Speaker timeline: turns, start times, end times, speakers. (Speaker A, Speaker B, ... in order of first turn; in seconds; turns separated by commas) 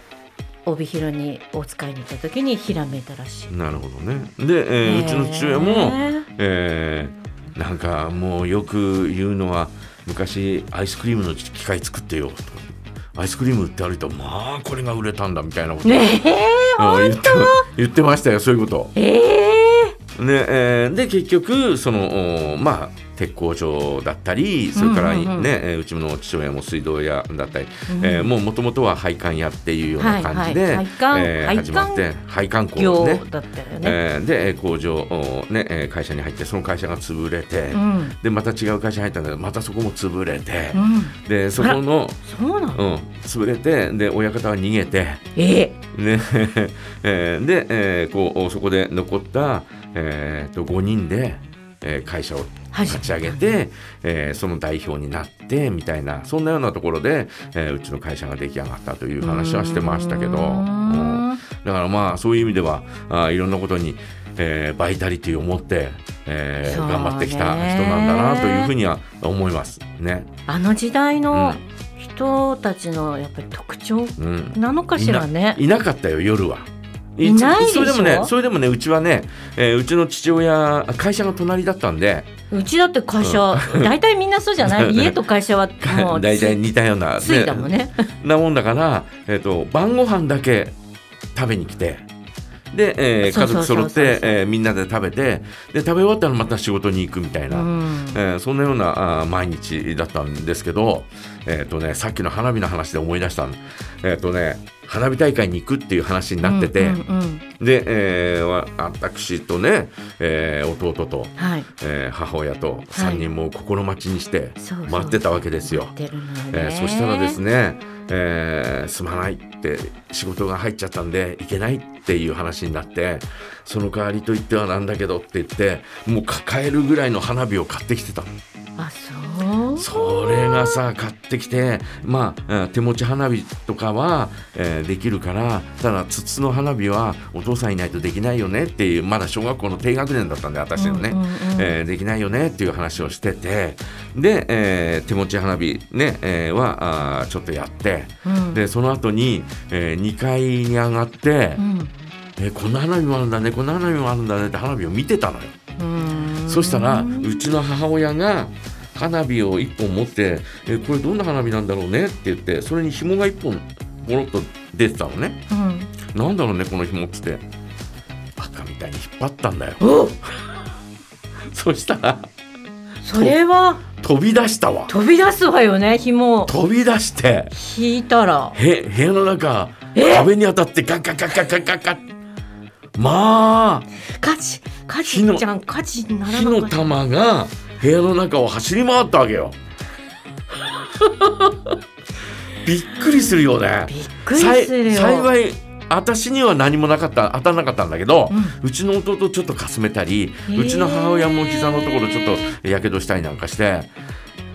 Speaker A: 0.7-3.5, Speaker B: 3.5-16.1, Speaker A: 4.8-6.2, Speaker A: 15.8-17.6, Speaker B: 16.8-18.9, Speaker A: 18.9-19.9, Speaker B: 20.1-33.2, Speaker A: 24.7-25.5, Speaker A: 27.9-28.3, Speaker A: 30.0-32.1, Speaker A: 32.8-34.0, Speaker B: 33.8-42.2, Speaker A: 37.7-38.2, Speaker A: 40.7-42.8, Speaker B: 42.7-45.2, Speaker A: 45.4-45.7, Speaker B: 45.9-70.3, Speaker A: 52.7-53.3, Speaker A: 59.2-61.4, Speaker A: 66.6-68.7, Speaker A: 70.5-75.6, Speaker B: 71.3-71.6, Speaker B: 74.2-82.3, Speaker A: 77.2-78.3, Speaker A: 82.5-86.6, Speaker B: 83.2-83.9, Speaker B: 84.6-85.2, Speaker B: 85.8-90.7, Speaker A: 87.2-88.0, Speaker B: 91.3-92.0, Speaker B: 92.7-107.0, Speaker A: 93.2-94.4, Speaker A: 97.5-98.2, Speaker A: 106.4-107.4, Speaker B: 107.6-115.9, Speaker A: 111.4-111.7, Speaker A: 112.9-113.3, Speaker A: 114.6-117.4, Speaker B: 116.5-128.3, Speaker A: 128.8-130.8, Speaker B: 129.8-151.6, Speaker A: 140.8-141.7, Speaker A: 148.2-148.6, Speaker A: 151.6-151.9, Speaker B: 152.4-155.5, Speaker A: 155.8-157.5, Speaker B: 156.4-165.4, Speaker A: 165.5-165.9, Speaker B: 166.1-167.4, Speaker B: 168.4-169.8, Speaker A: 169.8-170.2, Speaker B: 171.5-172.3, Speaker A: 173.0-173.8, Speaker B: 173.1-173.3, Speaker B: 173.9-174.9, Speaker A: 174.9-176.5, Speaker B: 176.4-177.5, Speaker A: 177.5-178.6, Speaker B: 178.5-182.0, Speaker A: 179.9-180.3, Speaker B: 183.0-183.9, Speaker A: 184.2-186.9, Speaker B: 185.0-185.4, Speaker B: 186.3-189.6, Speaker B: 192.6-203.9, Speaker A: 193.0-195.3, Speaker A: 198.3-198.6, Speaker A: 200.5-202.6